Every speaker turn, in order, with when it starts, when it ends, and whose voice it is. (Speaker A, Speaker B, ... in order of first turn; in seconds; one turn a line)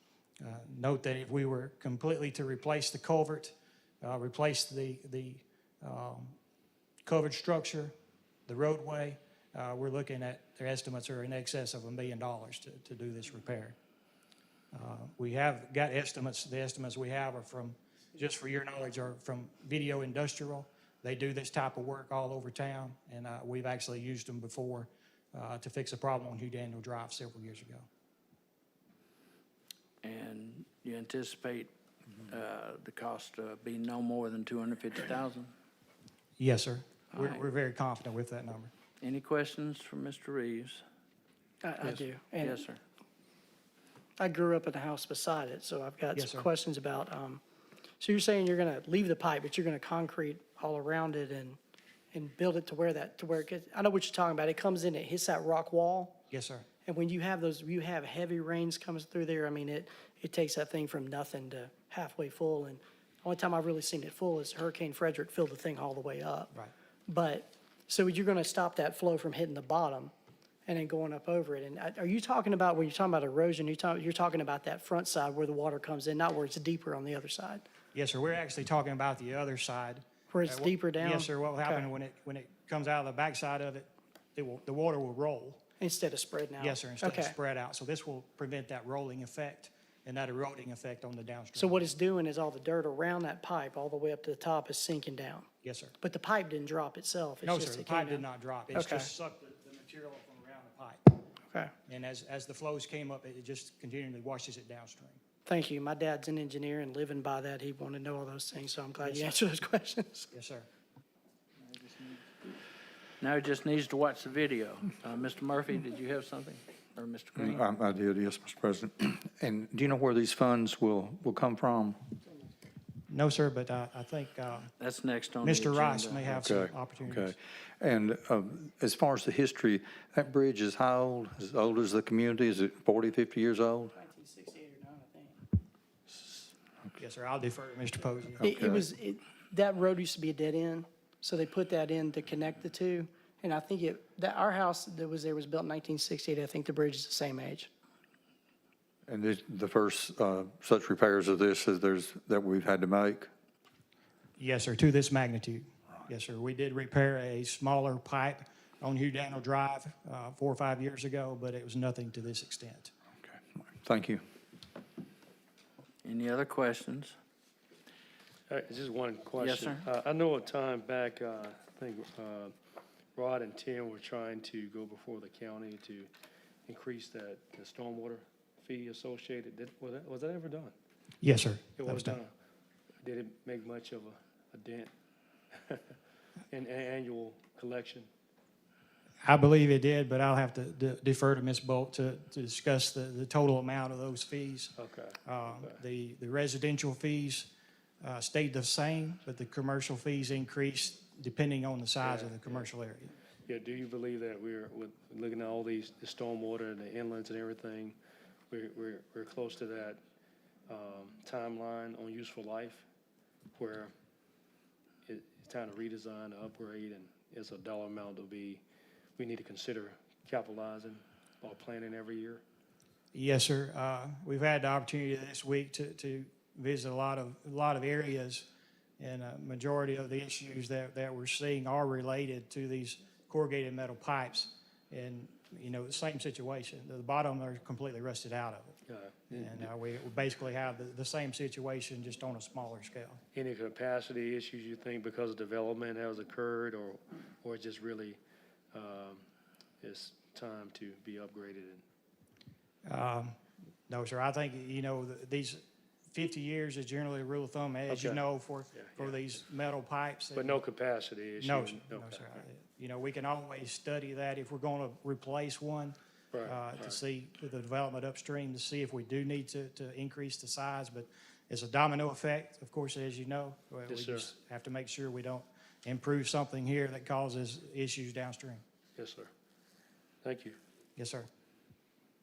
Speaker A: 0.4-6.4
Speaker A: 7.0-7.9
Speaker A: 8.5-13.8
Speaker A: 14.7-27.9
Speaker B: 30.0-31.7
Speaker B: 32.3-35.5
Speaker A: 36.4-38.7
Speaker B: 37.1-37.4
Speaker B: 39.0-40.8
Speaker C: 41.6-42.6
Speaker B: 41.8-42.8
Speaker C: 44.2-47.4
Speaker A: 46.1-46.5
Speaker C: 48.0-51.6
Speaker C: 52.1-56.2
Speaker A: 56.3-56.7
Speaker C: 56.9-66.5
Speaker C: 67.1-70.1
Speaker C: 70.7-77.6
Speaker A: 77.9-85.6
Speaker C: 80.3-81.9
Speaker C: 85.8-87.3
Speaker A: 86.6-91.9
Speaker C: 91.6-95.5
Speaker A: 95.6-96.0
Speaker C: 96.0-99.1
Speaker A: 97.4-101.2
Speaker A: 101.9-105.2
Speaker C: 105.5-110.3
Speaker A: 109.0-109.4
Speaker A: 110.3-110.7
Speaker B: 111.7-112.2
Speaker B: 113.2-117.6
Speaker D: 117.4-122.0
Speaker A: 123.1-124.7
Speaker B: 124.8-126.3
Speaker A: 125.4-127.3
Speaker D: 126.3-133.9
Speaker C: 133.9-135.4
Speaker A: 137.0-138.4
Speaker D: 138.4-138.9
Speaker C: 138.4-147.7
Speaker D: 149.1-153.3
Speaker A: 154.4-162.9
Speaker D: 163.2-164.2
Speaker B: 166.0-167.2
Speaker E: 168.5-172.5
Speaker B: 169.4-169.8
Speaker E: 173.2-176.1
Speaker E: 176.7-180.7
Speaker A: 181.2-182.2
Speaker E: 181.8-182.3
Speaker E: 183.0-184.9
Speaker E: 185.5-185.9
Speaker E: 186.5-188.1
Speaker A: 189.2-194.7
Speaker E: 194.8-195.8
Speaker A: 195.3-197.5
Speaker A: 198.0-203.1
Speaker E: 202.0-202.7
Speaker E: 203.5-208.0
Speaker E: 208.5-210.0
Speaker E: 210.7-212.8
Speaker E: 213.6-213.9
Speaker E: 215.1-218.6
Speaker E: 219.2-222.4
Speaker A: 223.1-228.5
Speaker A: 229.0-238.8
Speaker E: 238.9-239.5
Speaker A: 239.3-243.2
Speaker E: 243.3-248.2
Speaker E: 248.7-249.2
Speaker E: 249.8-251.8
Speaker A: 252.9-260.6
Speaker E: 257.9-258.2
Speaker E: 258.7-259.2
Speaker E: 260.4-262.2
Speaker A: 261.4-278.6
Speaker E: 266.3-267.0
Speaker E: 273.9-274.3
Speaker E: 279.0-279.3
Speaker E: 280.2-280.6
Speaker A: 281.0-281.3